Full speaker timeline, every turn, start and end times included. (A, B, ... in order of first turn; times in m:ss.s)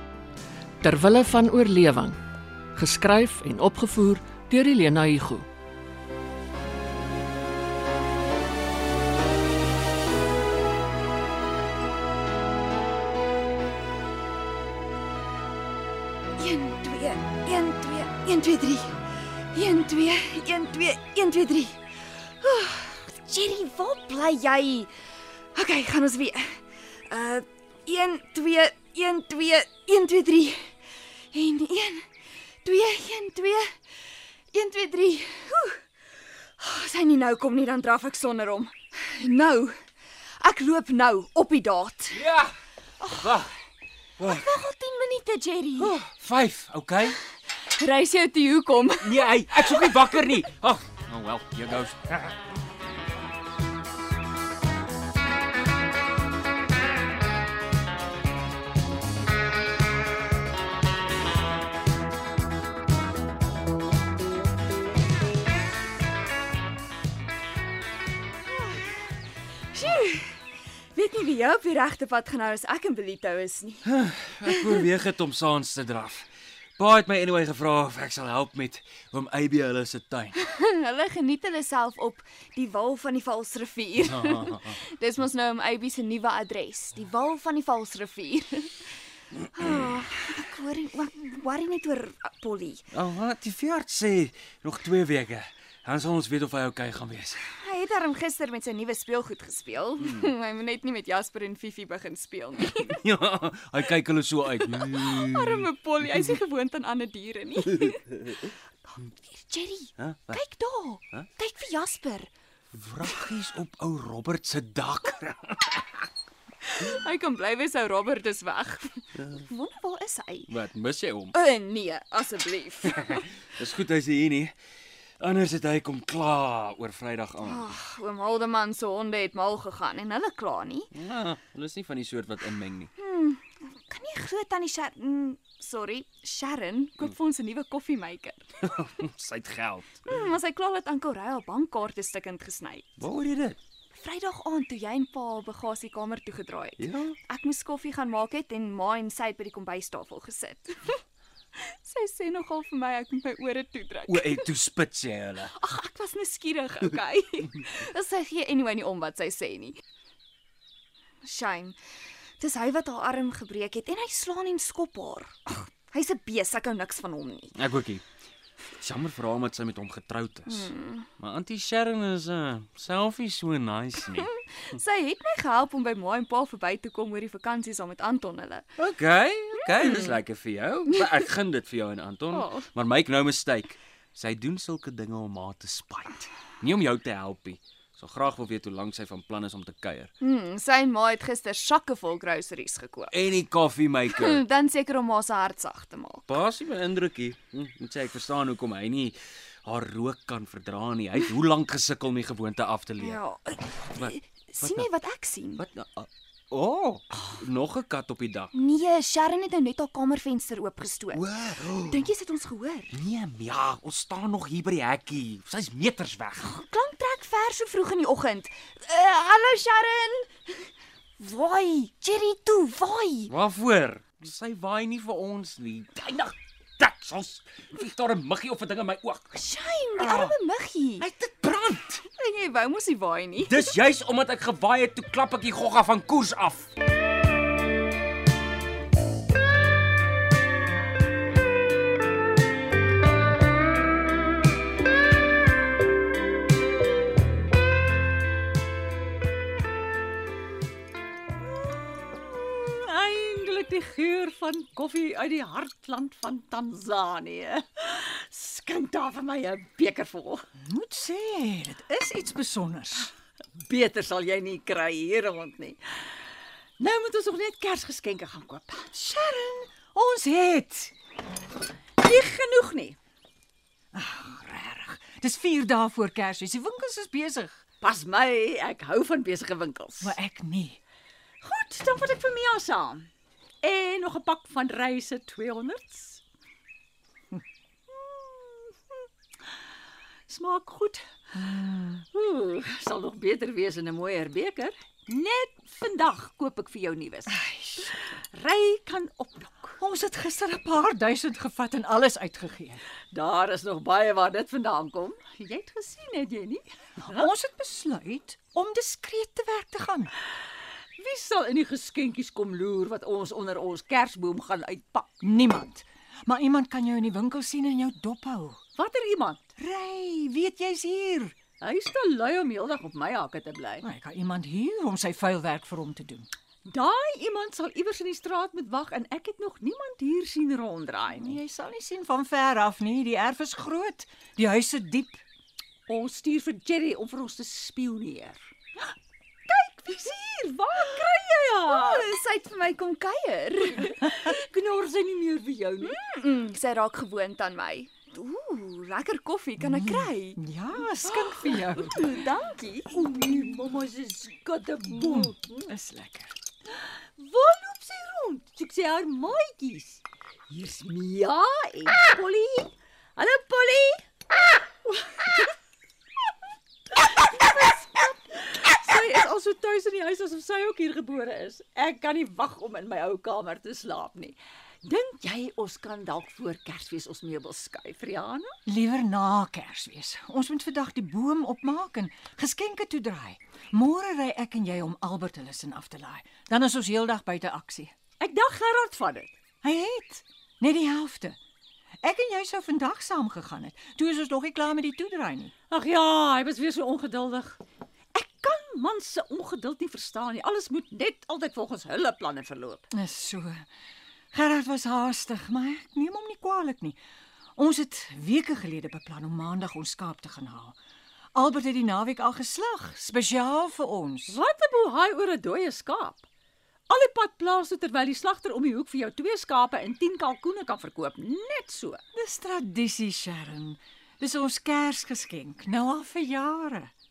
0:00.8-0:02.2 A
0:02.8-0:05.5 A
0:16.4-0:24.9 B
0:25.6-0:30.7 B
0:31.3-0:32.1 B
0:32.6-0:33.8 B
0:34.5-0:35.8 B
0:36.6-0:39.8 B
0:40.4-0:42.2 B
0:42.2-0:42.5 C
0:43.0-0:43.4 B
0:44.2-0:46.0 B
0:44.2-0:44.5 C
0:45.8-0:47.2 C
0:47.7-0:50.2 B
0:49.0-0:52.3 C
1:08.5-1:09.2 B
1:09.7-1:13.8 B
1:13.9-1:16.2 C
1:16.8-1:20.4 C
1:20.4-1:28.9 B
1:24.3-1:24.6 C
1:29.5-1:32.9 B
1:32.9-1:37.4 C
1:37.6-1:43.0 B
1:42.8-1:46.3 C
1:44.6-1:52.3 B
1:50.0-1:50.4 C
1:52.8-1:55.7 C
1:56.6-2:00.5 B
2:00.5-2:01.3 C
2:01.3-2:03.2 B
2:03.6-2:04.5 C
2:05.2-2:07.7 C
2:07.4-2:10.9 B
2:11.0-2:12.9 C
2:13.0-2:18.5 B
2:18.7-2:20.0 C
2:20.1-2:22.9 B
2:23.0-2:23.6 C
2:23.9-2:31.0 B
2:26.8-2:27.1 C
2:31.6-2:34.5 B
2:34.1-2:35.5 C
2:35.5-2:39.8 B
2:41.2-2:41.8 B
2:42.4-2:47.5 B
2:47.6-2:48.0 C
2:48.8-2:50.7 C
2:50.5-2:51.1 B
2:51.2-2:54.3 C
2:54.2-2:58.7 B
2:58.8-3:10.1 C
2:59.7-3:00.1 B
3:02.3-3:02.7 B
3:10.2-3:13.2 B
3:13.1-3:14.4 C
3:14.1-3:16.3 B
3:16.3-3:23.2 C
3:23.0-3:25.6 B
3:25.6-3:28.5 C
3:28.5-3:31.2 B
3:31.1-3:32.0 C
3:31.9-3:32.9 B
3:32.9-3:36.5 C
3:36.4-3:43.3 B
3:43.3-3:49.2 C
3:49.3-3:51.1 B
3:50.0-3:50.3 C
3:51.0-3:52.0 C
3:52.1-3:53.7 B
3:53.5-3:56.7 C
4:11.9-4:20.4 D
4:20.6-4:23.1 E
4:23.6-4:26.0 D
4:26.8-4:28.9 D
4:28.9-4:30.9 E
4:32.0-4:33.0 D
4:33.9-4:37.6 E
4:37.8-4:40.1 D
4:40.0-4:40.8 E
4:41.4-4:43.1 D
4:43.6-4:46.2 D
4:47.9-4:48.8 D
4:50.3-4:51.0 D
4:51.3-4:52.0 E
4:52.1-4:57.4 D
4:57.3-4:58.1 E
4:58.3-4:59.8 D
4:59.8-5:02.8 E
5:03.1-5:07.3 D
5:07.0-5:10.1 E
5:11.0-5:15.1 D
5:15.2-5:18.6 E
5:18.8-5:19.5 D
5:19.6-5:21.4 E
5:21.6-5:23.9 D
5:23.8-5:26.3 E
5:26.6-5:31.3 D
5:31.1-5:35.2 E
5:35.9-5:38.4 D
5:39.5-5:42.0 D
5:41.7-5:44.3 B
5:44.4-5:46.0 D
5:45.8-5:50.4 B
5:49.6-5:52.1 E
5:51.0-5:52.9 B
5:52.9-5:55.7 D
5:54.9-5:56.4 E
5:56.7-6:04.0 D
6:07.0-6:18.6 D
6:18.7-6:27.9 E
6:28.4-6:29.4 D
6:29.6-6:31.4 E
6:32.0-6:35.5 E
6:35.7-6:37.6 D
6:38.2-6:42.8 D
6:42.9-6:43.7 E
6:44.3-6:47.0 E
6:47.6-6:50.8 E
6:51.3-6:54.4 E
6:54.3-6:56.3 D
6:56.9-7:02.0 D
7:00.8-7:01.2 C
7:02.1-7:06.9 E